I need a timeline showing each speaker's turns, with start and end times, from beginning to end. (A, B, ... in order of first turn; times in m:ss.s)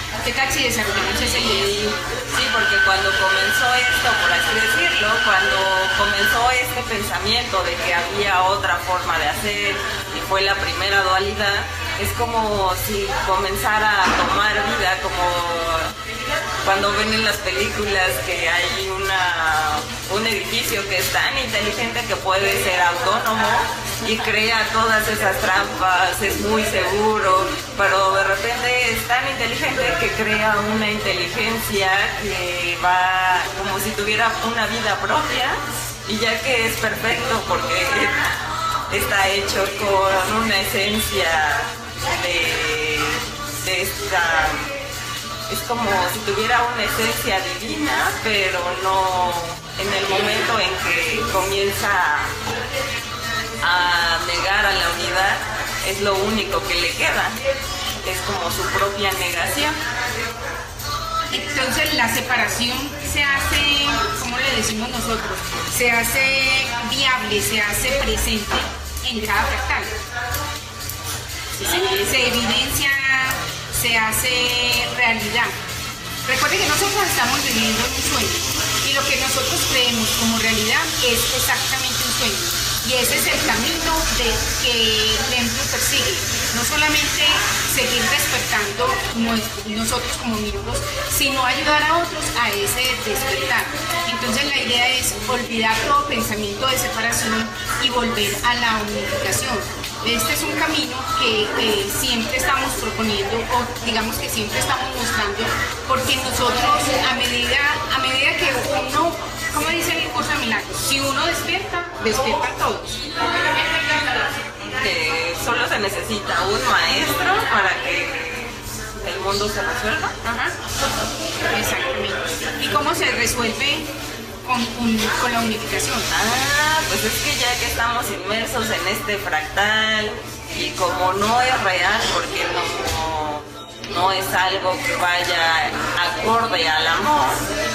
0:00.2-0:01.7 A
0:01.2-0:15.9 B
0:16.6-0:44.7 B
0:45.5-0:52.4 B
0:53.6-0:57.4 B
0:58.0-0:59.8 B
1:01.3-1:09.9 A
1:11.6-1:15.5 A
1:16.2-1:53.0 A
1:54.7-2:00.2 B
2:00.2-2:00.5 A
2:01.5-2:03.9 A
2:04.4-2:06.1 A
2:06.1-2:17.5 B